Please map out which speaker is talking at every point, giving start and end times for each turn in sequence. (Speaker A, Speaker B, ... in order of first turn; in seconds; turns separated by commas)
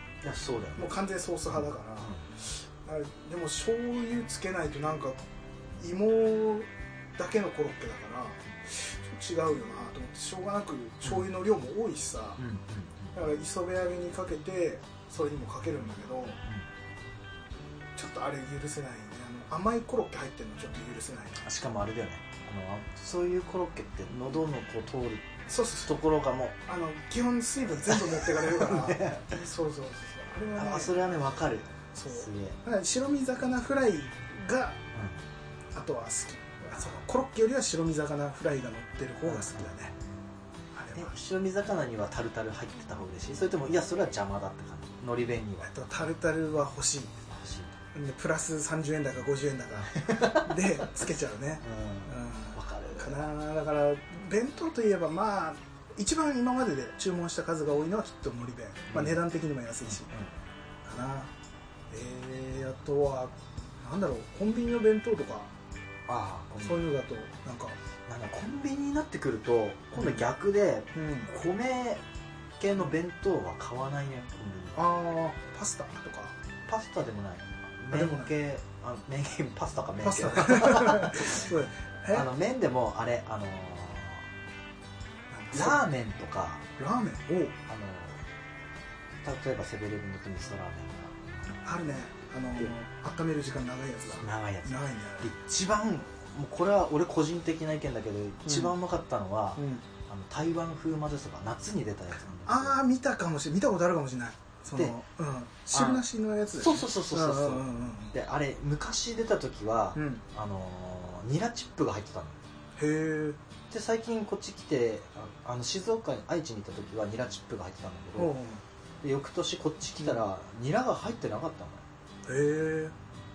Speaker A: 0.2-0.9, Speaker B: 0.8-5.2, Speaker A: 2.0-2.3, Speaker B: 5.8-12.4, Speaker A: 12.4-13.1, Speaker B: 13.1-16.4, Speaker B: 17.9-21.4, Speaker A: 21.4-26.6, Speaker B: 25.5-26.0, Speaker B: 26.7-31.0, Speaker A: 27.9-29.4, Speaker A: 30.6-32.6, Speaker B: 31.9-34.8, Speaker B: 35.7-39.9, Speaker A: 39.3-39.7, Speaker B: 40.7-41.1, Speaker A: 40.9-45.7, Speaker B: 45.6-47.2, Speaker A: 47.3-47.7, Speaker B: 47.9-60.1, Speaker A: 49.9-50.8, Speaker A: 51.6-53.2, Speaker A: 58.9-59.2, Speaker A: 59.9-60.3, Speaker B: 60.9-61.3, Speaker B: 61.9-65.5, Speaker A: 66.1-66.9, Speaker B: 66.6-67.8, Speaker A: 68.1-72.0, Speaker B: 70.0-70.2, Speaker B: 71.0-71.3, Speaker A: 72.6-74.8, Speaker B: 74.8-76.4, Speaker A: 76.7-81.5, Speaker B: 77.9-78.3, Speaker B: 80.0-82.3, Speaker A: 82.1-84.3, Speaker B: 85.3-85.8, Speaker A: 85.5-86.7, Speaker B: 86.8-87.6, Speaker A: 87.7-88.2, Speaker A: 89.2-91.5, Speaker B: 91.6-95.3, Speaker A: 94.2-102.8, Speaker B: 98.5-98.7, Speaker B: 99.6-99.8, Speaker B: 102.5-108.1, Speaker A: 105.7-106.0, Speaker A: 106.6-112.4, Speaker B: 110.0-110.2, Speaker B: 112.8-113.4, Speaker A: 113.7-118.4, Speaker B: 118.2-118.6, Speaker A: 119.0-121.8, Speaker B: 122.3-123.0